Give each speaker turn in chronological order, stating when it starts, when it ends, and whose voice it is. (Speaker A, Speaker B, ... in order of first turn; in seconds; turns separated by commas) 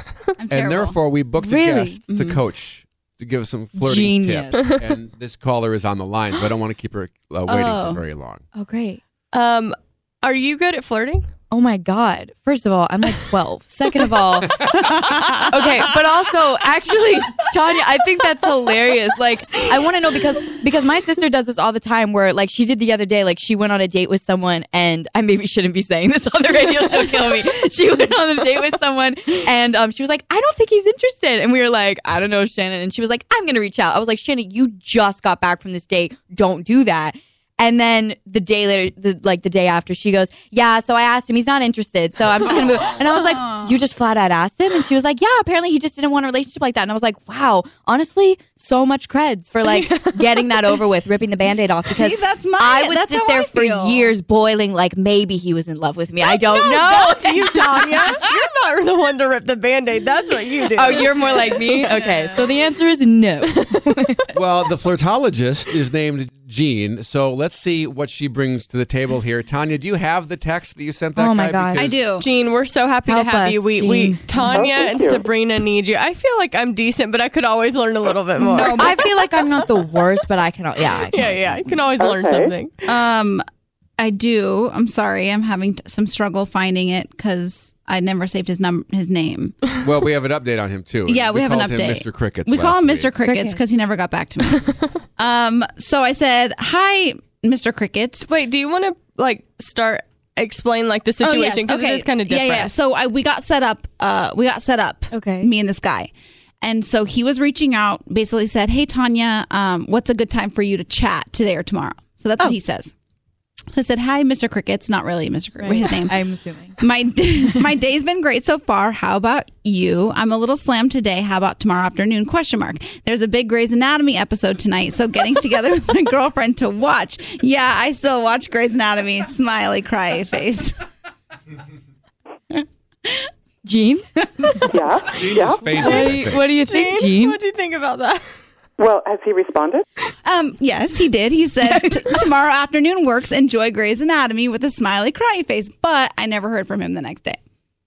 Speaker A: 0.4-1.0, Speaker B: 0.5-8.4, Speaker C: 1.4-2.0, Speaker A: 2.1-2.4, Speaker C: 3.8-4.8, Speaker A: 7.5-8.0, Speaker C: 8.6-9.0, Speaker D: 9.3-11.2, Speaker C: 11.5-58.2, Speaker A: 14.7-15.5, Speaker A: 43.0-43.7, Speaker D: 49.6-50.5, Speaker A: 52.0-54.1, Speaker D: 56.3-62.0, Speaker C: 60.8-64.2, Speaker D: 63.5-64.0, Speaker B: 64.3-72.0, Speaker C: 71.2-71.9, Speaker A: 71.8-72.2, Speaker D: 72.2-79.1, Speaker C: 73.1-74.7, Speaker E: 74.5-75.2, Speaker C: 78.4-81.8, Speaker A: 78.5-78.8, Speaker D: 81.1-82.8, Speaker E: 82.0-82.5, Speaker A: 82.9-83.5, Speaker A: 84.0-89.6, Speaker B: 89.8-93.1, Speaker A: 91.1-98.3, Speaker C: 93.2-93.6, Speaker D: 94.5-94.9, Speaker D: 98.3-102.7, Speaker A: 101.2-106.1, Speaker C: 105.1-105.5, Speaker A: 106.6-112.9, Speaker A: 113.7-116.2, Speaker C: 115.6-116.8, Speaker A: 116.8-130.7, Speaker A: 132.5-133.3, Speaker C: 133.6-134.8, Speaker E: 134.7-136.0, Speaker B: 135.1-136.4, Speaker C: 135.8-137.4, Speaker D: 135.8-138.3, Speaker E: 138.8-139.9, Speaker A: 140.2-147.4, Speaker C: 141.7-142.2